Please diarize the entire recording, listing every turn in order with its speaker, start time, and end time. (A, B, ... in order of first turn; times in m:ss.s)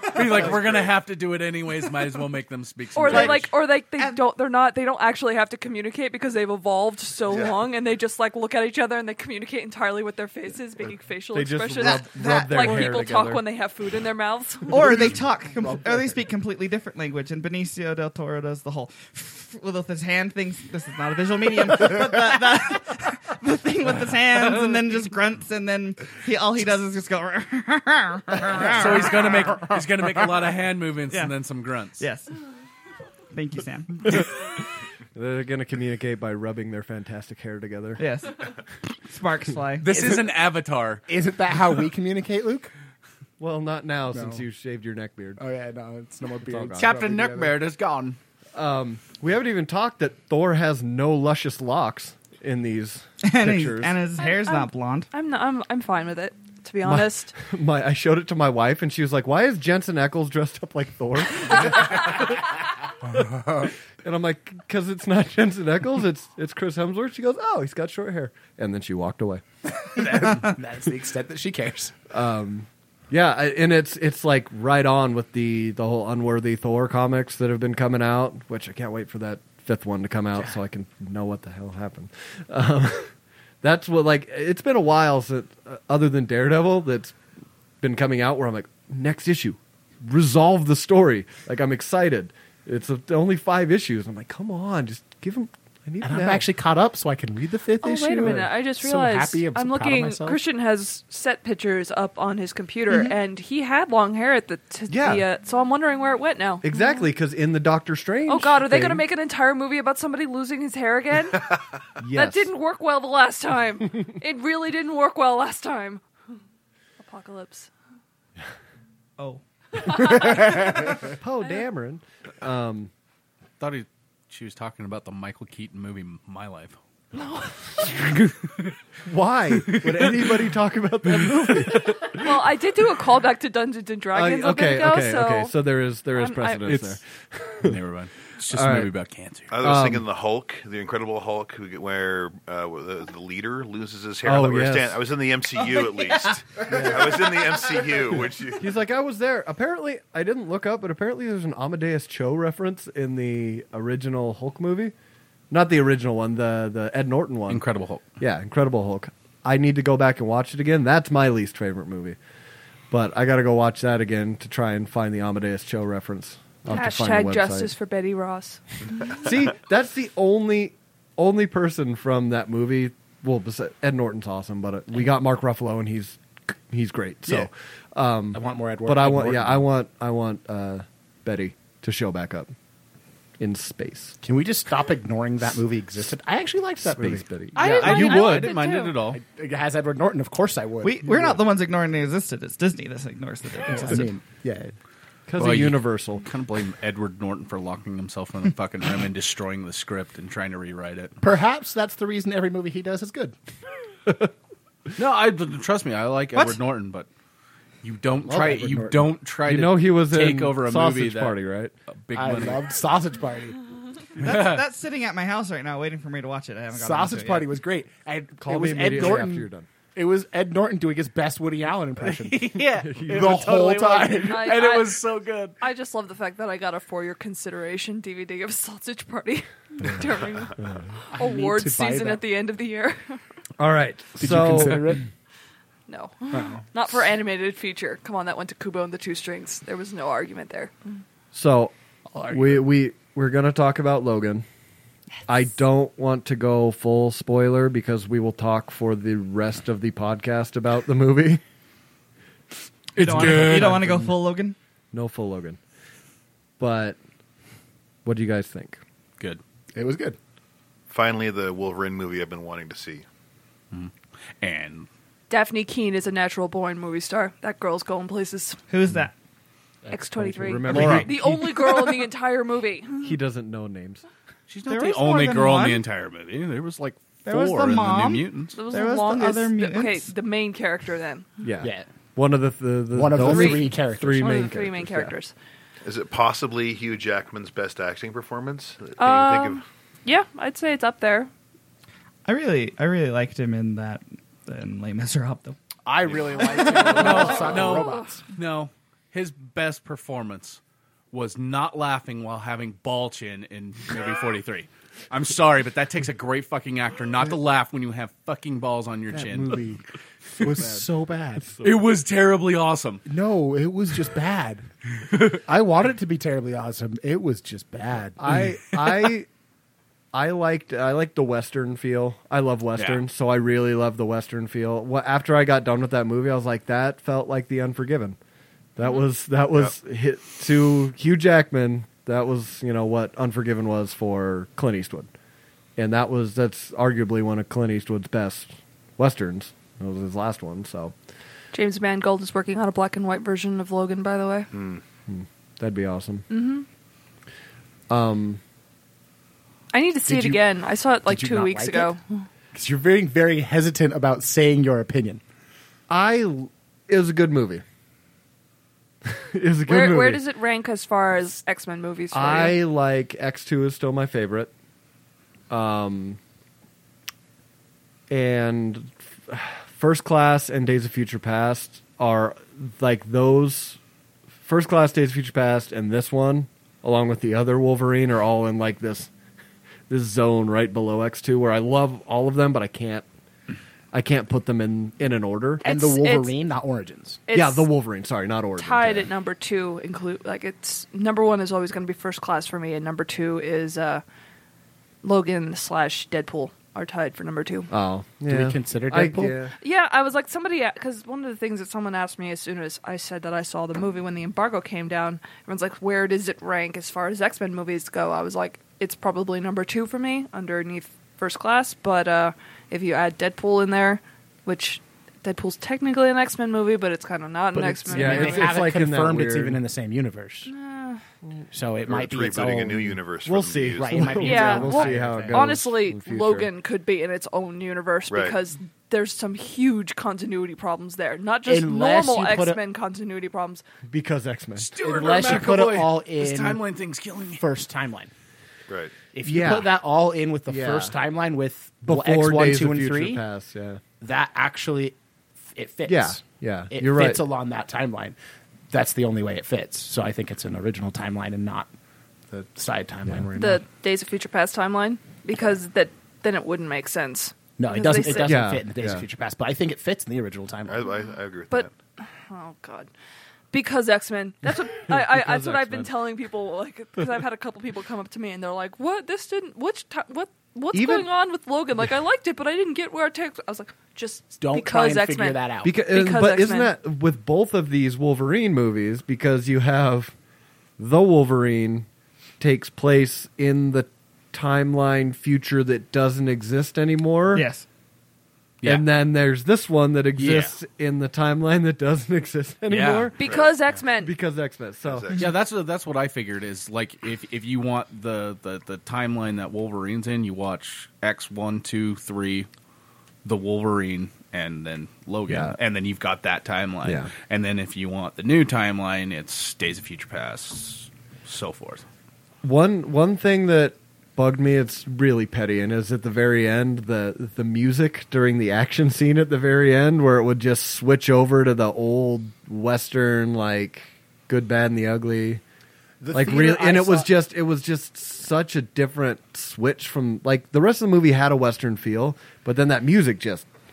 0:00.1-0:03.5 A
0:03.0-0:14.8 B
0:03.1-0:04.2 C
0:07.3-0:07.6 D
0:11.3-0:13.4 E
0:11.8-0:13.0 C
0:14.7-0:29.6 C
0:15.6-0:16.2 F
0:28.6-0:32.0 A
0:32.0-0:32.3 C
0:33.3-0:34.3 C
0:35.2-0:38.0 E
0:38.0-0:39.9 C
0:39.8-0:41.0 A
0:39.9-0:40.3 F
0:41.1-0:42.7 F
0:43.4-0:45.4 E
0:44.1-0:44.4 F
0:45.4-0:47.6 F
0:46.5-0:46.9 E
0:46.8-0:48.2 A
0:48.5-0:54.0 E
0:53.3-0:55.1 C
0:54.2-0:57.3 B
0:56.8-1:02.6 E
1:03.1-1:09.4 E
1:09.9-1:11.9 F
1:12.1-1:27.2 E
1:27.8-1:36.5 E
1:36.0-1:40.4 F
1:37.8-1:46.7 B
1:38.1-1:38.4 E
1:44.9-1:45.2 E
1:46.6-1:49.0 E
1:48.3-1:51.4 B
1:52.0-1:52.5 E
1:52.2-1:56.0 B
1:57.0-1:57.7 B
1:59.2-2:00.7 C
1:59.9-2:00.3 B
2:01.1-2:02.9 E
2:03.6-2:06.8 A
2:07.2-2:07.8 B
2:09.0-2:12.4 E
2:12.1-2:15.6 B
2:14.1-2:17.8 E
2:16.1-2:16.7 B
2:16.7-2:17.0 A
2:17.6-2:19.5 A
2:18.5-2:18.9 E
2:19.5-2:28.7 D
2:19.6-2:20.0 E
2:24.2-2:25.0 E
2:25.8-2:26.4 C
2:26.7-2:27.3 E
2:28.6-2:34.9 E
2:35.5-2:37.6 E
2:37.5-2:38.0 A
2:38.2-2:42.2 E
2:42.9-2:47.7 E
2:46.7-2:48.6 B
2:49.2-3:02.5 E
2:58.3-2:59.6 F
3:03.4-3:04.2 E
3:04.2-3:11.4 F
3:06.8-3:07.6 E
3:07.6-3:09.0 B
3:07.6-3:09.2 A
3:10.8-3:14.1 C
3:13.6-3:14.7 F
3:15.3-3:16.3 E
3:15.4-3:21.2 A
3:21.2-3:23.4 F
3:25.0-3:27.1 A
3:27.8-3:31.4 A
3:28.3-3:29.2 F
3:29.4-3:31.7 E
3:31.9-3:32.8 A
3:32.1-3:33.6 F
3:34.2-3:37.5 C
3:34.2-3:34.6 A
3:36.7-3:44.6 F
3:38.4-3:39.7 E
3:42.0-3:45.6 A
3:44.2-3:45.0 B
3:45.6-3:50.6 B
3:50.6-3:50.9 E
3:51.1-3:52.2 F
3:51.1-3:53.2 B
3:53.6-3:55.0 E
3:54.2-3:55.1 F
3:55.9-4:00.7 B
3:56.3-3:56.6 F
4:01.3-4:01.7 E
4:02.1-4:02.6 F
4:02.3-4:04.4 E
4:05.3-4:11.4 E
4:13.0-4:14.0 A
4:13.0-4:14.6 C
4:13.0-4:14.0 E
4:14.9-4:15.6 E
4:16.6-4:17.0 E
4:18.0-4:18.8 E
4:19.7-4:20.2 F
4:20.9-4:23.0 D
4:23.7-4:24.9 A
4:25.3-4:28.6 B
4:28.7-4:29.1 C
4:29.9-4:31.0 F
4:29.9-4:33.1 B
4:30.2-4:31.9 E
4:30.7-4:31.0 A
4:33.0-4:34.0 E
4:34.5-4:38.6 A
4:34.6-4:35.8 C
4:37.3-4:40.1 C
4:38.5-4:41.3 B
4:41.4-4:45.1 E
4:41.6-4:41.9 F
4:42.9-4:44.3 F
4:43.2-4:45.3 B
4:45.8-4:49.6 D
4:49.0-4:51.3 B
4:52.2-4:55.6 C
4:55.8-4:58.2 F
4:56.1-5:00.6 A
5:01.1-5:09.7 A
5:09.1-5:09.8 F
5:10.4-5:11.5 F
5:10.4-5:10.8 E
5:11.4-5:11.8 E
5:11.6-5:13.0 A
5:13.1-5:14.6 F
5:15.4-5:18.2 F
5:18.2-5:19.3 E
5:20.1-5:28.2 E
5:22.8-5:23.0 A
5:28.8-5:35.1 E
5:35.8-5:41.0 E
5:41.5-5:44.5 B
5:44.5-5:44.8 D
5:45.1-5:46.3 E
5:46.3-5:46.7 B
5:47.9-5:48.4 E
5:49.7-5:52.2 B
5:50.1-5:50.4 F
5:51.1-5:52.0 F
5:52.5-5:55.2 F
5:55.9-5:57.6 E
5:59.1-6:00.2 E
5:59.7-6:02.6 B
6:02.1-6:04.5 E
6:05.5-6:06.2 E
6:08.1-6:13.8 E
6:14.4-6:19.1 E
6:19.9-6:23.1 E
6:23.9-6:25.7 E
6:25.6-6:27.2 F
6:25.6-6:26.3 B
6:27.3-6:27.7 B
6:27.3-6:29.1 E
6:28.6-6:34.0 B
6:35.0-6:37.7 B
6:37.7-6:39.5 E
6:38.3-6:39.4 F
6:39.6-6:58.6 B
6:57.6-6:59.6 E
6:57.8-7:00.5 F
7:00.5-7:01.0 B
7:01.5-7:02.9 F
7:01.9-7:04.3 D
7:03.2-7:06.5 E
7:03.8-7:05.6 F
7:04.2-7:13.6 B
7:08.1-7:08.4 D
7:11.5-7:12.6 F
7:13.9-7:14.7 E
7:14.6-7:17.4 A
7:14.8-7:16.6 F
7:17.4-7:18.1 F
7:18.7-7:19.0 D
7:19.1-7:23.2 F
7:19.2-7:19.7 E
7:20.5-7:21.0 E
7:21.8-7:23.8 E
7:24.0-7:25.0 F
7:25.5-7:28.2 F
7:25.9-7:27.2 E
7:28.7-7:31.7 F
7:32.3-7:33.7 F
7:33.4-7:38.5 B
7:37.6-7:40.8 F
7:38.2-7:39.0 E
7:40.7-7:41.7 D
7:41.5-7:42.9 B
7:43.5-7:56.7 B
7:44.9-7:45.9 E
7:50.7-7:51.1 E
7:54.4-7:55.8 F
7:55.6-8:00.1 E
8:00.8-8:01.9 E
8:02.4-8:07.5 E
8:07.3-8:07.6 C
8:08.6-8:08.9 A
8:08.6-8:13.4 E
8:10.2-8:10.6 A
8:12.7-8:13.1 A
8:13.2-8:14.1 B
8:13.2-8:13.5 D
8:13.9-8:15.1 E
8:14.8-8:15.3 D
8:15.2-8:22.5 A
8:23.2-8:31.8 A
8:25.3-8:25.6 E
8:26.8-8:27.1 E
8:32.4-8:45.4 E
8:46.0-8:47.1 F
8:46.1-8:53.5 E